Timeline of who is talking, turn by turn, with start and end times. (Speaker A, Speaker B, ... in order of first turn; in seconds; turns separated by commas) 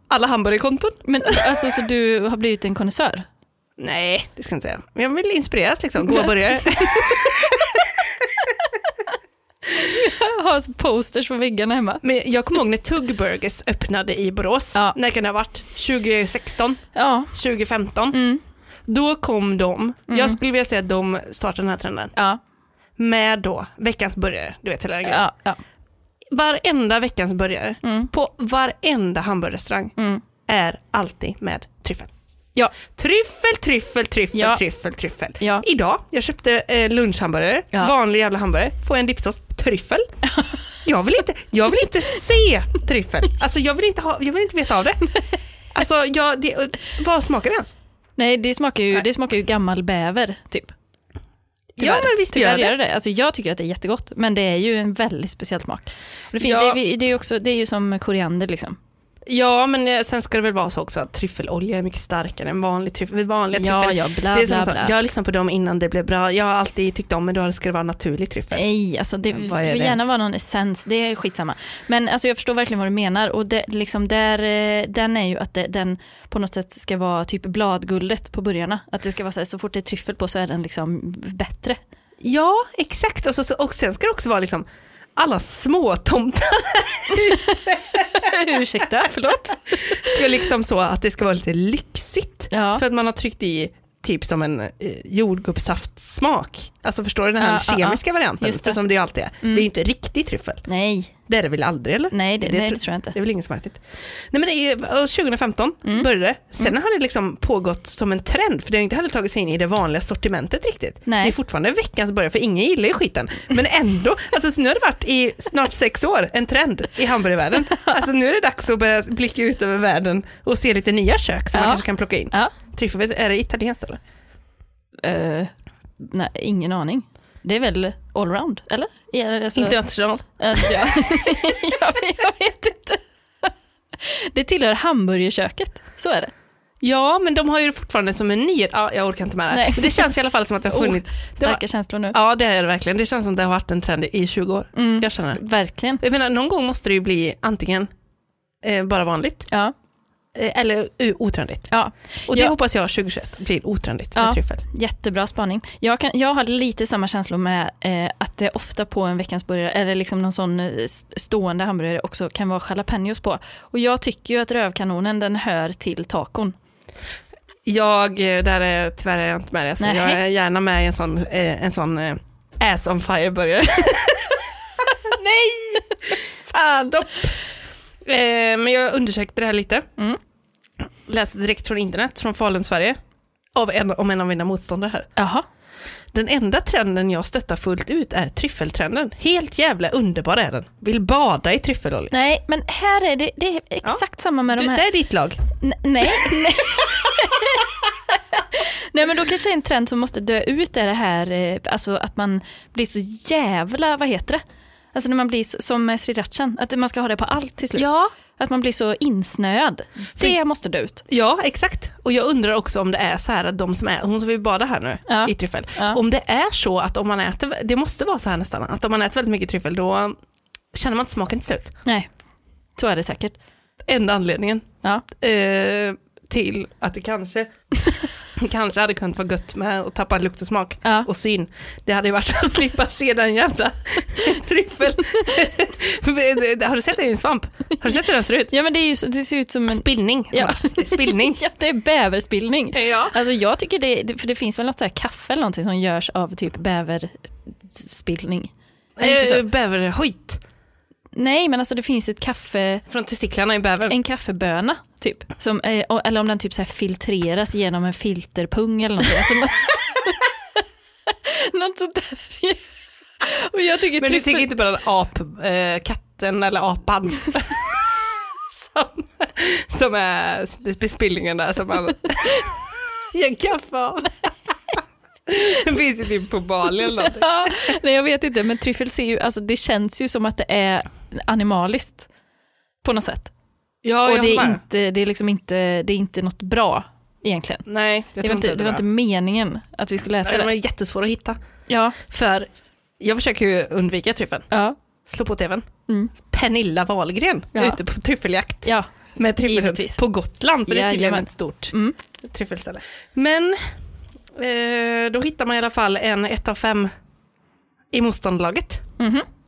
Speaker A: 0.1-1.4, Speaker B: 1.0-3.3, Speaker A: 3.8-7.9, Speaker B: 9.7-12.0, Speaker A: 12.0-16.8, Speaker B: 16.9-17.3, Speaker A: 17.3-18.2, Speaker B: 18.1-18.4, Speaker A: 18.9-22.1, Speaker B: 20.1-20.4, Speaker A: 23.0-25.2, Speaker B: 25.0-25.6, Speaker A: 26.3-29.9, Speaker B: 27.8-28.1, Speaker B: 30.0-30.2, Speaker A: 30.4-32.1, Speaker A: 32.8-40.1, Speaker B: 34.3-34.6, Speaker B: 35.4-35.6, Speaker B: 40.3-40.6, Speaker A: 40.8-47.7, Speaker B: 48.2-50.7, Speaker A: 51.8-52.7, Speaker B: 51.8-58.8, Speaker A: 56.4-56.8, Speaker A: 59.2-68.6, Speaker B: 63.5-64.9, Speaker B: 68.5-81.8, Speaker A: 69.3-70.1, Speaker A: 82.2-84.6, Speaker A: 85.2-88.3, Speaker B: 87.1-90.4, Speaker A: 89.7-100.7, Speaker B: 92.5-92.8, Speaker B: 97.4-98.8, Speaker B: 100.7-101.1, Speaker A: 101.3-124.0, Speaker B: 102.1-103.2, Speaker B: 111.0-111.3, Speaker B: 117.7-118.0, Speaker B: 121.5-122.5, Speaker B: 125.0-129.8, Speaker A: 129.5-130.9, Speaker B: 130.4-136.3, Speaker A: 136.8-145.4, Speaker B: 139.5-140.1, Speaker B: 140.7-142.2, Speaker B: 144.7-146.0, Speaker A: 146.0-147.9, Speaker A: 148.6-149.5, Speaker A: 150.3-151.7, Speaker B: 151.7-152.5, Speaker A: 152.3-154.6, Speaker B: 154.2-166.6, Speaker A: 167.7-174.4, Speaker B: 169.8-170.2, Speaker A: 175.0-177.3, Speaker A: 178.0-179.9, Speaker A: 181.0-183.0, Speaker A: 183.5-185.1, Speaker B: 185.2-185.4, Speaker A: 186.1-192.1, Speaker B: 192.1-194.8, Speaker A: 194.5-195.4, Speaker B: 195.6-204.4, Speaker A: 196.0-196.5, Speaker B: 204.9-211.0, Speaker A: 207.8-208.1, Speaker A: 211.1-220.1, Speaker B: 215.1-216.0, Speaker A: 220.7-221.7, Speaker B: 222.8-223.3, Speaker A: 223.8-227.5, Speaker A: 228.3-238.5, Speaker B: 238.5-249.4, Speaker A: 239.7-241.4, Speaker A: 242.7-243.2, Speaker A: 249.0-250.4, Speaker B: 251.1-252.8, Speaker A: 252.9-253.9, Speaker B: 253.9-260.2, Speaker B: 261.1-262.6, Speaker B: 263.2-264.6, Speaker A: 264.0-274.8, Speaker A: 275.3-277.7, Speaker B: 277.1-282.1, Speaker B: 282.8-283.3, Speaker A: 283.8-284.6, Speaker B: 284.0-287.6, Speaker A: 287.6-288.8, Speaker B: 288.2-290.5, Speaker A: 290.2-291.4, Speaker B: 291.7-292.0, Speaker A: 292.0-292.5, Speaker A: 293.0-294.5, Speaker B: 294.5-294.8, Speaker A: 295.1-295.7, Speaker B: 295.9-296.1, Speaker A: 296.2-303.7, Speaker B: 297.5-297.8, Speaker B: 298.6-300.0, Speaker B: 300.7-301.9, Speaker A: 304.3-306.9, Speaker A: 307.9-308.8, Speaker B: 309.0-309.3